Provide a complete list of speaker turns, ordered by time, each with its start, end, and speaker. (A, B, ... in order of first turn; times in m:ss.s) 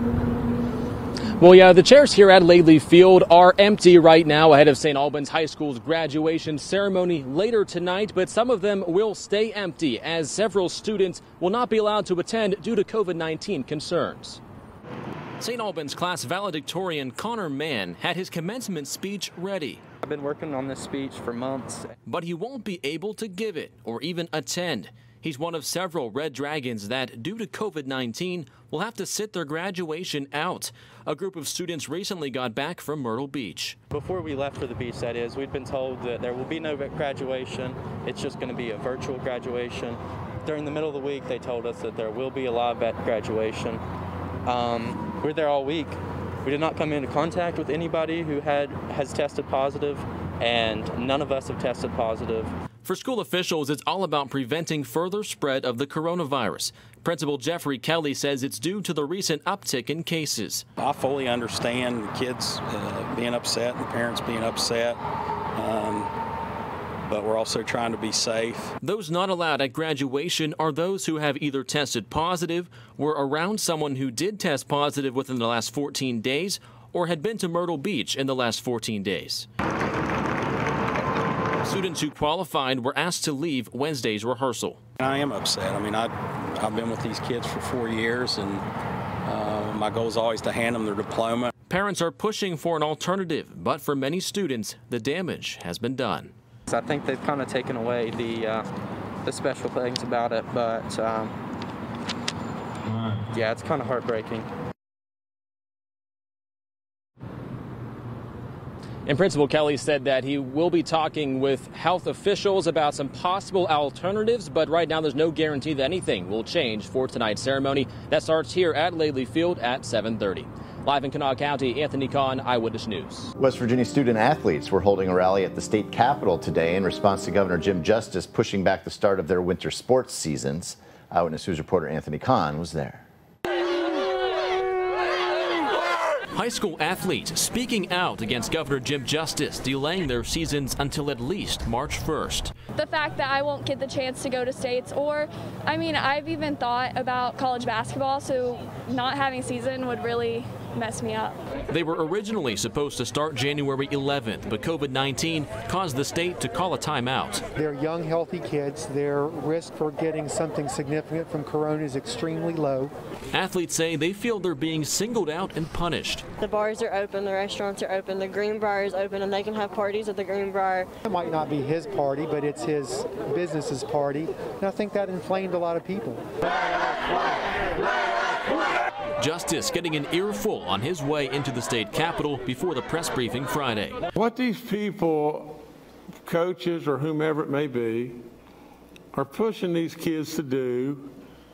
0:01.4-0:14.4 A
0:15.4-0:19.8 A
0:20.0-0:21.9 B
0:22.0-0:33.8 A
0:33.9-0:43.8 B
0:44.5-0:45.9 B
0:46.4-0:52.5 B
0:52.8-1:00.6 A
1:00.8-1:05.0 C
1:05.6-1:06.1 C
1:07.1-1:08.7 C
1:08.8-1:19.5 A
1:21.6-1:24.8 A
1:25.0-1:28.6 C
1:29.2-1:31.5 C
1:31.7-1:36.3 A
1:36.7-1:38.6 B
1:39.2-1:41.3 B
1:43.4-1:44.5 B
1:49.1-2:03.3 A
2:03.4-2:13.0 D
2:16.3-2:22.5 A
2:22.8-2:31.4 E
2:31.7-2:37.4 A
2:37.6-2:42.9 F
2:43.3-2:46.2 A
2:46.4-2:50.9 G
2:51.0-2:56.2 F
2:59.2-3:04.0 A
3:04.1-3:05.6 H
3:06.2-3:08.2 H
3:09.1-3:11.1 H